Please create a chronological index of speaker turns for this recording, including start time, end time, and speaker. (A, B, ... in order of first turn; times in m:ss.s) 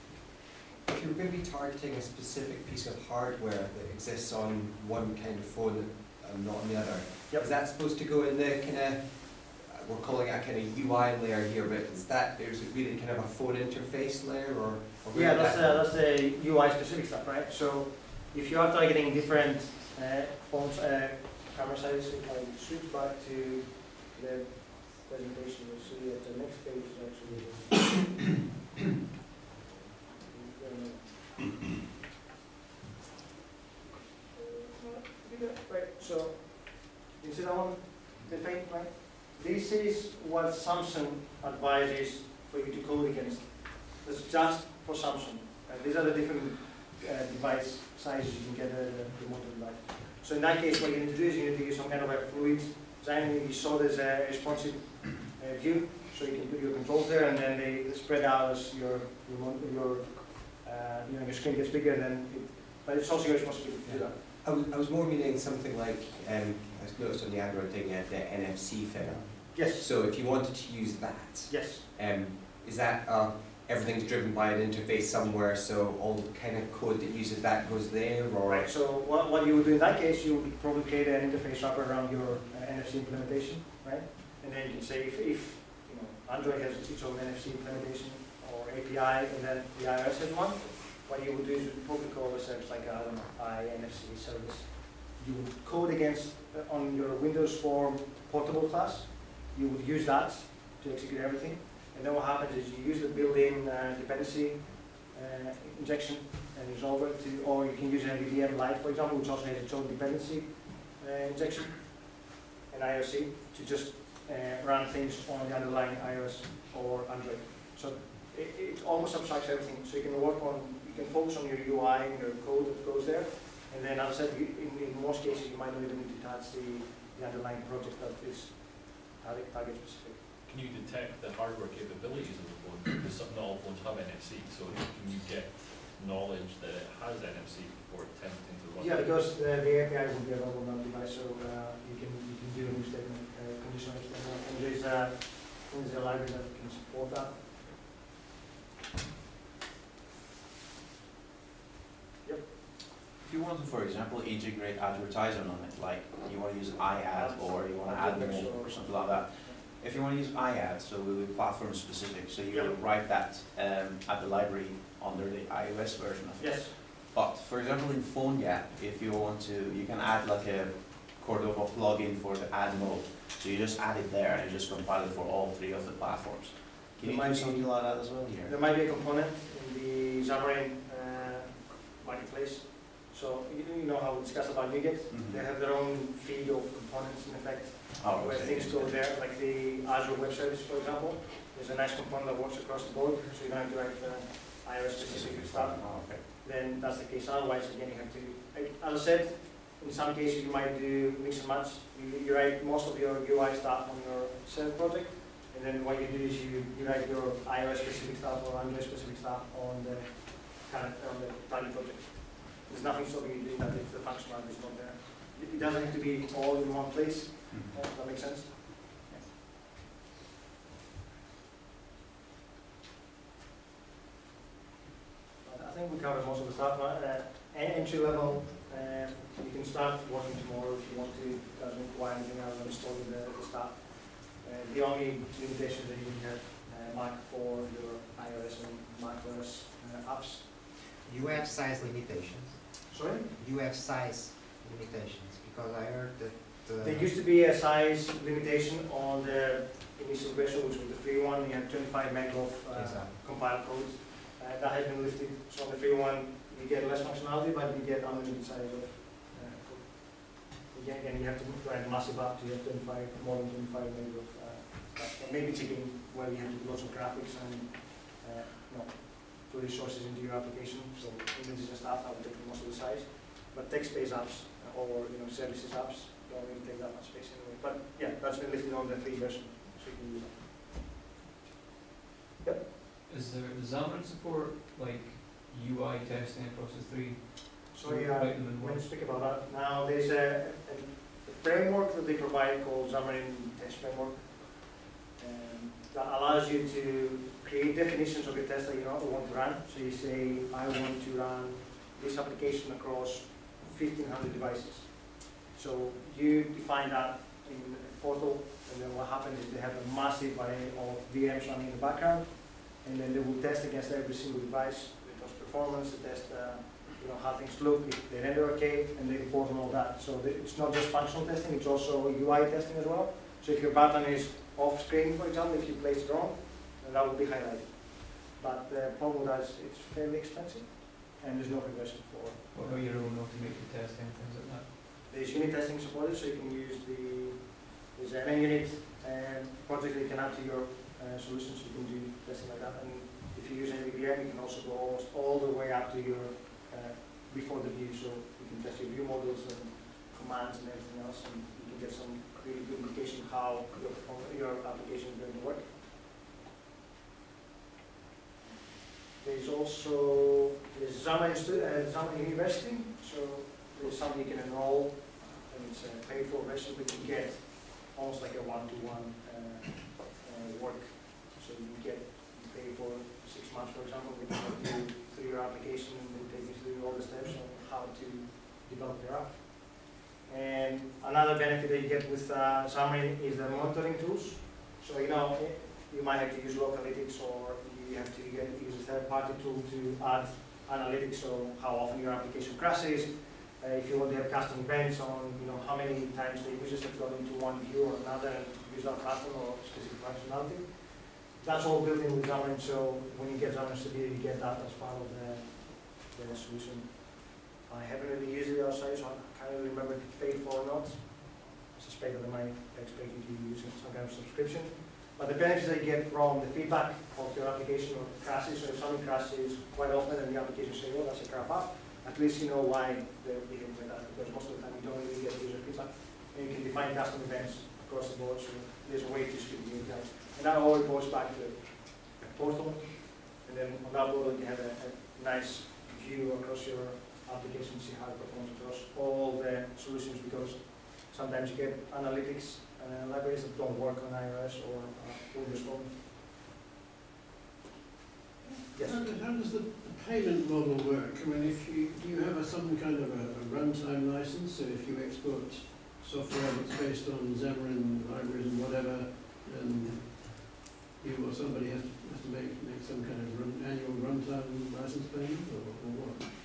0:00.8-0:15.9 A
0:15.1-0:28.2 B
0:30.1-0:31.4 B
0:34.3-1:04.1 B
1:03.9-1:18.7 A
1:09.2-1:09.9 B
1:11.5-1:11.8 B
1:18.4-2:10.2 B
2:10.4-2:19.2 C
2:18.8-2:27.5 B
2:32.2-2:32.5 B
2:33.2-2:58.5 D
2:37.1-2:39.6 B
2:42.5-2:42.8 B
2:46.4-2:46.8 B
2:57.0-3:39.3 B
3:05.1-3:05.4 D
3:08.0-3:08.9 D
3:15.0-3:16.2 D
3:45.4-4:00.8 B
4:00.9-4:07.1 E
4:02.9-4:03.2 B
4:06.8-4:40.5 B
4:12.7-4:13.1 E
4:42.4-4:42.7 B
4:43.0-4:48.8 F
4:47.7-5:32.9 B
5:32.5-5:34.7 F
5:35.1-5:55.8 B
5:58.4-7:25.9 B
7:28.4-7:29.1 B
7:28.7-7:46.3 G